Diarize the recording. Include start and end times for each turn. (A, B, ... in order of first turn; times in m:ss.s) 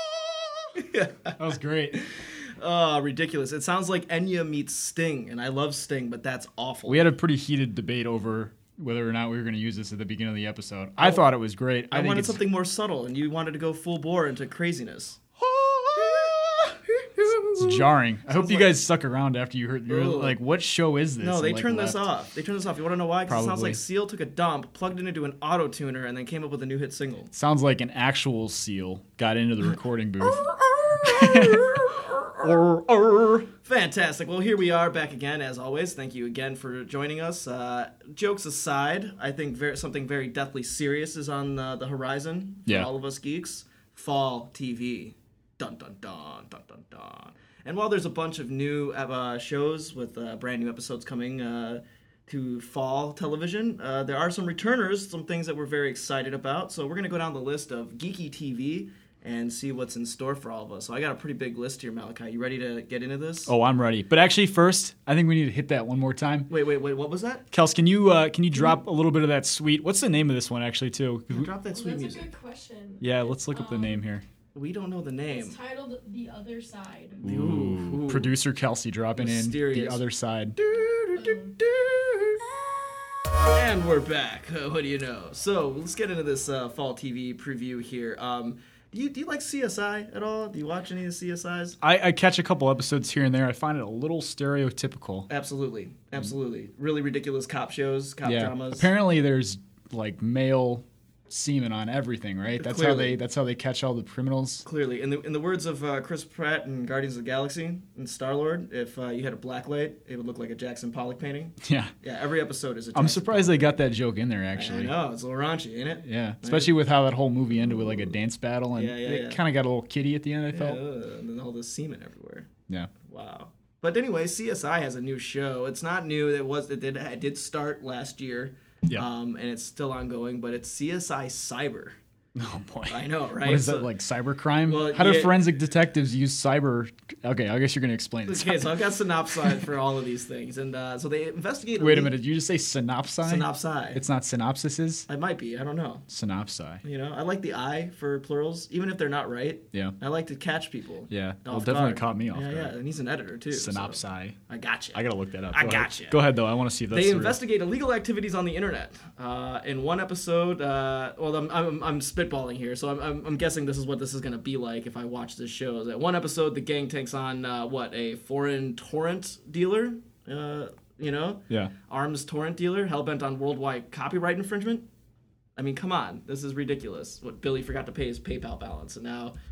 0:00.7-0:07.1 A
0:01.4-0:02.0 B
0:06.8-0:12.4 B
0:11.0-0:11.2 A
0:11.9-0:15.2 A
0:15.4-0:16.4 B
0:15.9-0:18.8 A
0:17.6-0:22.0 B
0:19.9-0:20.4 A
0:21.2-0:27.3 A
0:23.3-0:23.8 B
0:27.3-0:33.5 B
0:30.7-0:32.3 A
0:33.6-1:03.5 A
1:03.5-1:06.5 B
1:06.5-1:07.5 A
1:07.5-1:11.5 B
1:08.5-1:08.8 A
1:11.3-1:12.3 A
1:11.7-1:14.0 C
1:13.0-1:14.2 B
1:14.5-1:15.6 A
1:15.3-1:17.2 C
1:17.2-1:18.4 A
1:17.2-1:20.6 B
1:19.1-1:20.0 A
1:20.6-1:22.4 A
1:21.2-1:21.6 C
1:23.5-1:31.8 A
1:31.8-1:35.3 B
1:35.3-1:38.9 A
1:38.2-1:44.6 B
1:42.6-1:43.2 A
1:44.6-1:53.8 A
1:51.6-1:51.9 B
1:52.9-1:55.0 B
1:54.5-1:56.7 A
1:56.0-2:00.8 B
1:57.6-1:58.2 A
1:58.7-1:59.4 A
2:00.5-2:02.5 A
2:03.0-2:12.0 A
2:12.3-2:18.8 B
2:12.9-2:13.9 A
2:14.6-2:15.5 A
2:18.2-2:22.1 A
2:21.8-2:25.1 B
2:23.2-2:24.0 A
2:25.1-2:26.0 A
2:26.1-2:26.8 B
2:26.8-2:36.2 A
2:31.1-2:32.7 B
2:33.5-2:34.4 B
2:34.9-2:37.4 B
2:36.9-2:54.9 A
2:55.6-2:59.3 A